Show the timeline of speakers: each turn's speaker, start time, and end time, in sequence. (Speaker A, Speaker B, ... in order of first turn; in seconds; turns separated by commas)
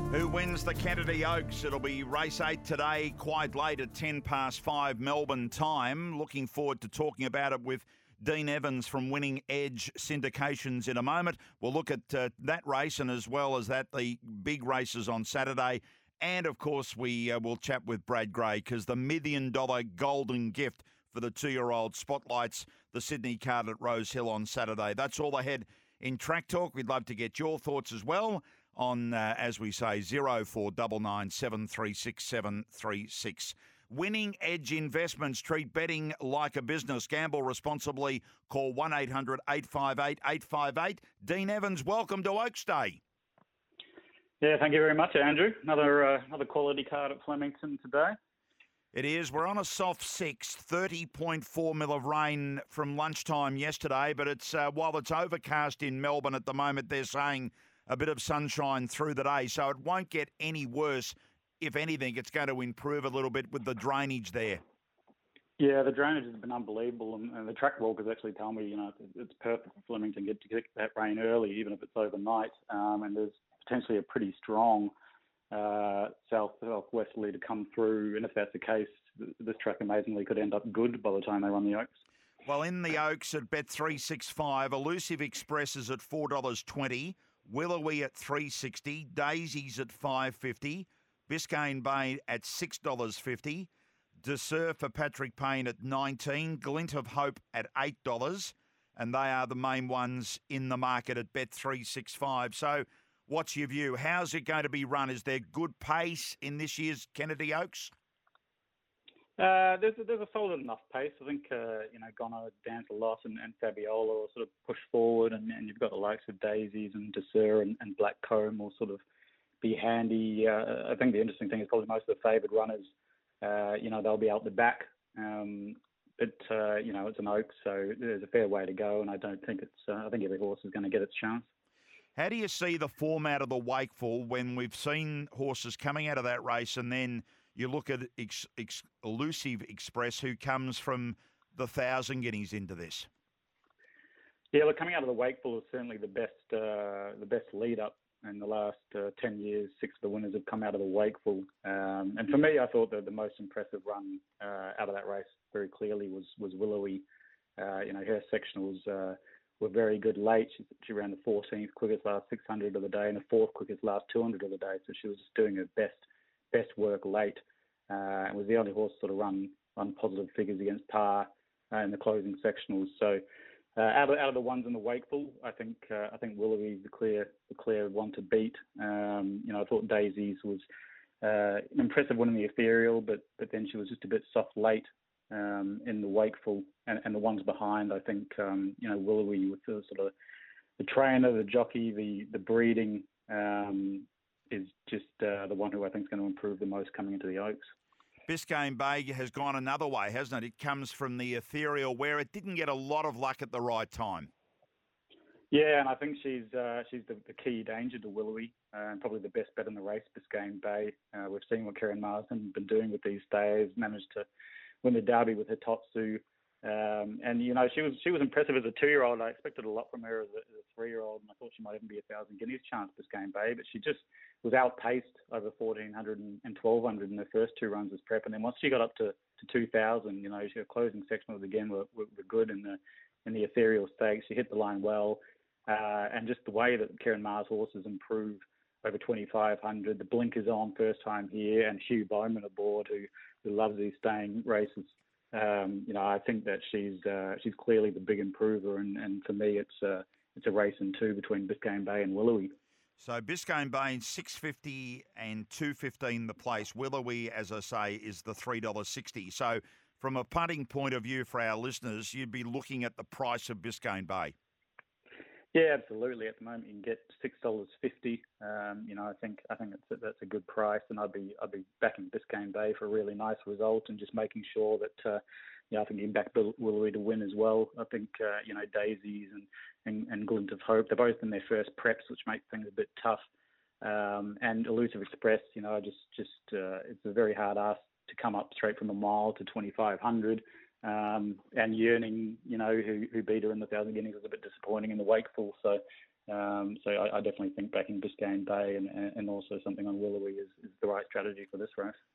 Speaker A: 0.1-43.0, Speaker B: 44.4-48.1, Speaker A: 48.9-64.6, Speaker B: 65.6-74.9, Speaker B: 75.5-81.9, Speaker A: 82.4-93.7, Speaker A: 94.2-107.9, Speaker B: 109.4-119.0, Speaker B: 119.6-122.9, Speaker B: 123.4-131.5, Speaker A: 132.2-143.1, Speaker B: 144.5-157.0, Speaker B: 157.6-173.2, Speaker B: 173.8-180.6, Speaker B: 181.2-190.1, Speaker B: 190.8-197.6, Speaker A: 198.3-204.3, Speaker B: 205.5-214.3, Speaker B: 214.8-252.6, Speaker A: 253.0-264.3, Speaker B: 265.5-283.2, Speaker B: 283.8-301.9